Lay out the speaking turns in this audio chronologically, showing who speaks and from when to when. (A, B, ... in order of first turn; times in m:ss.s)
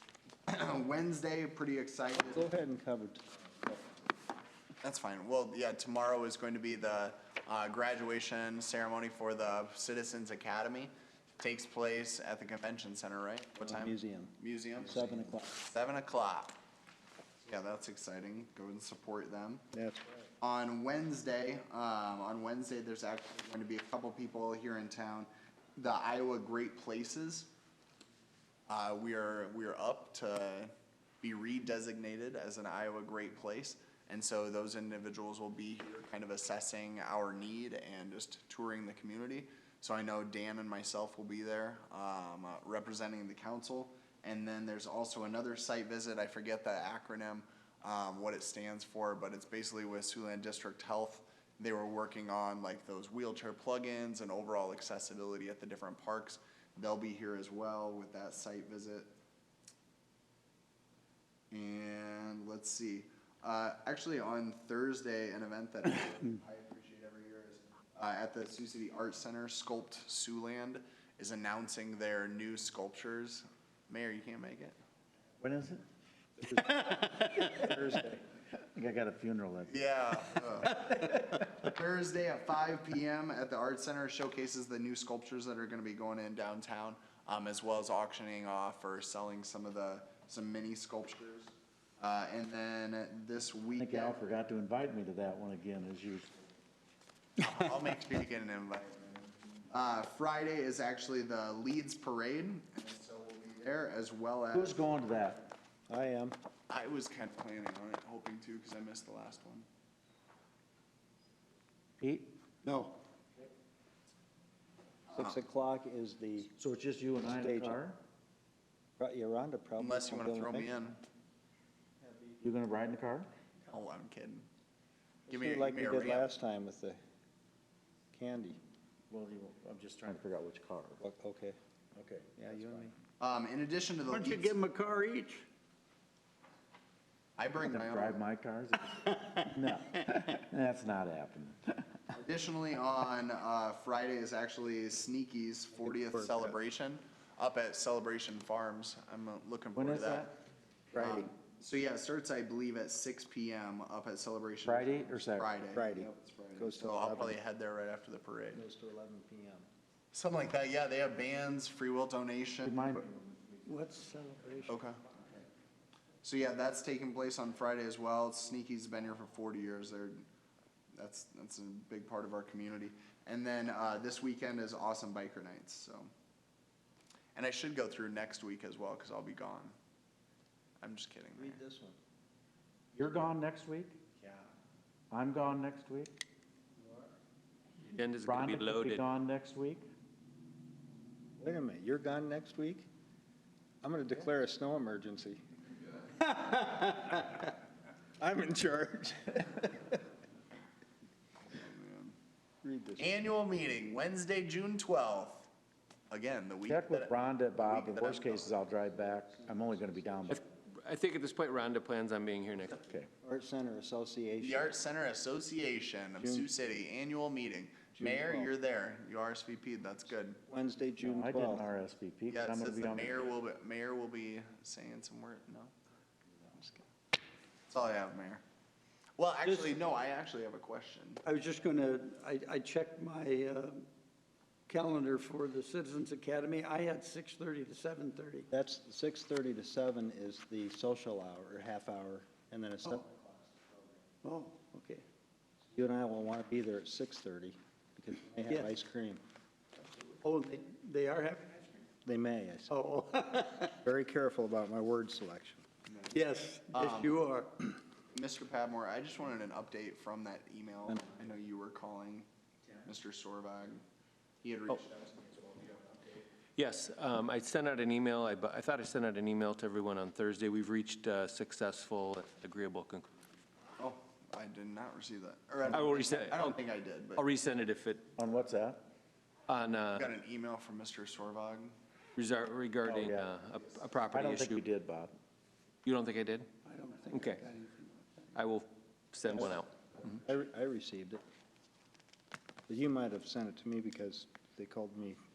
0:00.5-0:02.5 A
0:02.3-0:03.8 B
0:04.8-0:16.6 A
0:13.7-0:15.5 B
0:17.4-0:19.7 A
0:19.7-0:20.3 B
0:20.4-0:27.5 A
0:28.7-0:59.1 A
1:01.5-1:14.8 A
1:15.4-1:15.8 C
1:16.5-1:18.2 B
1:17.0-1:17.4 D
1:17.3-1:17.8 C
1:18.6-1:21.2 C
1:19.7-1:34.2 A
1:33.8-1:36.3 C
1:37.4-1:44.8 A
1:44.5-1:45.5 C
1:45.9-1:46.4 B
1:46.7-1:49.7 A
1:52.0-1:52.3 C
1:52.7-1:53.0 D
1:55.1-1:55.4 A
1:55.1-1:56.5 B
1:56.6-1:58.0 C
1:57.4-1:57.8 B
1:59.0-2:00.7 B
1:59.8-2:01.0 A
2:02.4-2:03.3 C
2:03.7-2:04.4 A
2:05.3-2:07.0 B
2:05.3-2:06.3 A
2:08.1-2:08.6 B
2:09.1-2:11.0 C
2:11.0-2:11.6 B
2:12.0-2:12.9 C
2:12.4-2:12.9 B
2:13.2-2:14.6 A
2:14.1-2:15.4 D
2:17.4-2:18.2 A
2:17.6-2:21.8 C
2:18.9-2:19.4 D
2:22.1-2:30.3 A
2:25.8-2:26.6 B
2:29.8-2:30.3 C
2:30.9-2:31.3 C
2:31.0-2:38.6 A
2:34.6-2:35.5 C
2:35.7-2:37.4 B
2:38.5-2:39.7 B
2:40.1-2:42.8 A
2:42.6-2:43.6 C
2:43.6-2:44.8 D
2:44.7-2:45.0 A
2:46.2-2:50.2 A
2:51.0-2:56.1 A
2:57.4-2:59.8 A
3:00.8-3:01.6 A
3:01.4-3:02.0 B
3:03.0-3:04.0 C
3:05.1-3:06.1 C
3:07.8-3:09.0 E
3:08.2-3:09.9 C
3:11.4-3:12.9 B
3:13.8-3:15.4 B
3:16.2-3:17.5 B
3:18.2-3:19.9 B
3:21.5-3:22.2 A
3:22.6-3:23.2 B
3:23.0-3:25.5 A
3:26.1-3:28.6 A
3:26.7-3:30.4 C
3:28.9-3:30.4 B
3:30.3-3:32.8 E
3:32.8-3:33.1 C
3:33.2-3:34.8 B
3:34.4-3:40.4 A
3:36.2-3:36.5 B
3:38.0-3:38.5 B
3:40.5-3:41.7 B
3:41.0-3:43.2 C
3:42.3-3:45.7 A
3:46.5-3:46.9 A
3:47.7-3:48.4 A
3:49.2-3:51.2 A
3:51.2-3:53.9 D
3:54.7-3:58.5 D
3:58.5-4:03.3 B
4:04.2-4:05.0 D
4:05.7-4:09.2 B
4:10.1-4:11.8 D
4:12.0-4:12.8 B
4:12.7-4:13.7 D
4:13.6-4:15.6 B
4:15.9-4:16.2 A
4:16.1-4:17.8 D
4:16.7-4:17.2 A
4:18.1-4:22.3 A
4:22.8-4:23.8 A
4:24.4-4:26.2 A
4:26.6-4:33.1 E
4:33.8-4:37.3 A
4:35.7-4:36.6 E
4:37.2-4:38.1 E
4:38.2-4:38.8 C
4:39.5-4:40.1 E
4:39.9-4:41.8 A
4:42.2-4:44.6 E
4:42.8-4:43.3 C
4:44.1-4:45.1 C
4:45.8-4:46.5 E
4:46.7-4:47.9 D
4:47.1-4:47.5 E
4:48.3-4:49.7 E
4:50.1-4:51.2 B
4:52.7-4:55.2 B